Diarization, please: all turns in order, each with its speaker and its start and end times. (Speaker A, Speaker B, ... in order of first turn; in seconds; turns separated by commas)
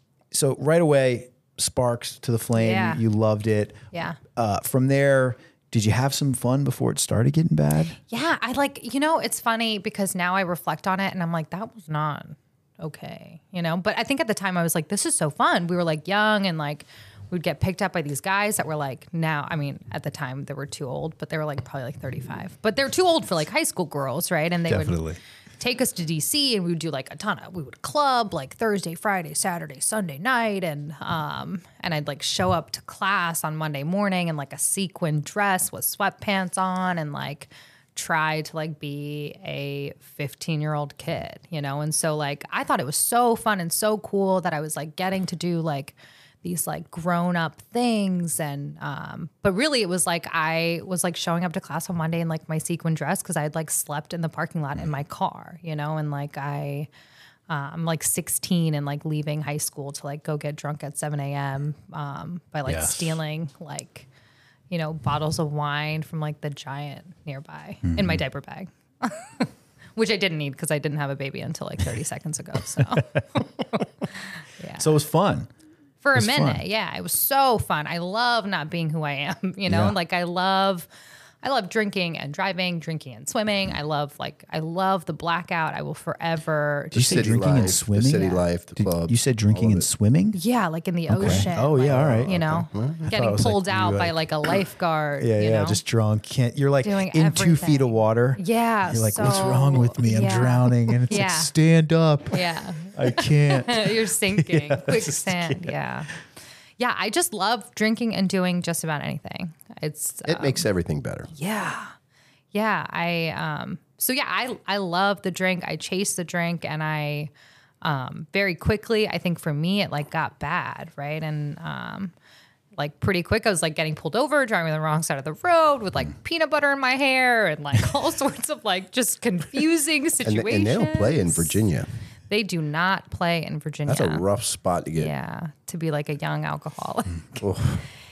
Speaker A: 0.3-3.8, Speaker B: 2.6-3.0, Speaker B: 3.9-4.2, Speaker A: 4.3-8.0, Speaker B: 8.1-25.0, Speaker A: 24.7-25.2, Speaker B: 25.6-56.9, Speaker B: 57.5-64.1, Speaker A: 62.7-63.2, Speaker B: 64.7-73.8, Speaker A: 67.9-68.2, Speaker B: 74.6-75.0, Speaker A: 74.8-75.5, Speaker B: 76.0-80.9, Speaker A: 76.2-76.6, Speaker A: 79.7-79.9, Speaker B: 81.4-88.4, Speaker A: 86.9-90.4, Speaker C: 86.9-89.9, Speaker B: 90.3-95.8, Speaker A: 91.1-92.3, Speaker C: 91.2-93.1, Speaker A: 93.1-94.2, Speaker A: 95.2-105.7, Speaker B: 96.8-101.5, Speaker B: 102.3-106.1, Speaker B: 106.8-110.7, Speaker C: 110.2-111.3, Speaker B: 111.3-111.9, Speaker B: 112.5-117.3, Speaker B: 117.8-122.1, Speaker B: 122.8-131.6, Speaker C: 130.2-131.9, Speaker B: 132.3-134.2, Speaker C: 133.9-135.1, Speaker B: 135.0-137.5, Speaker C: 137.4-137.8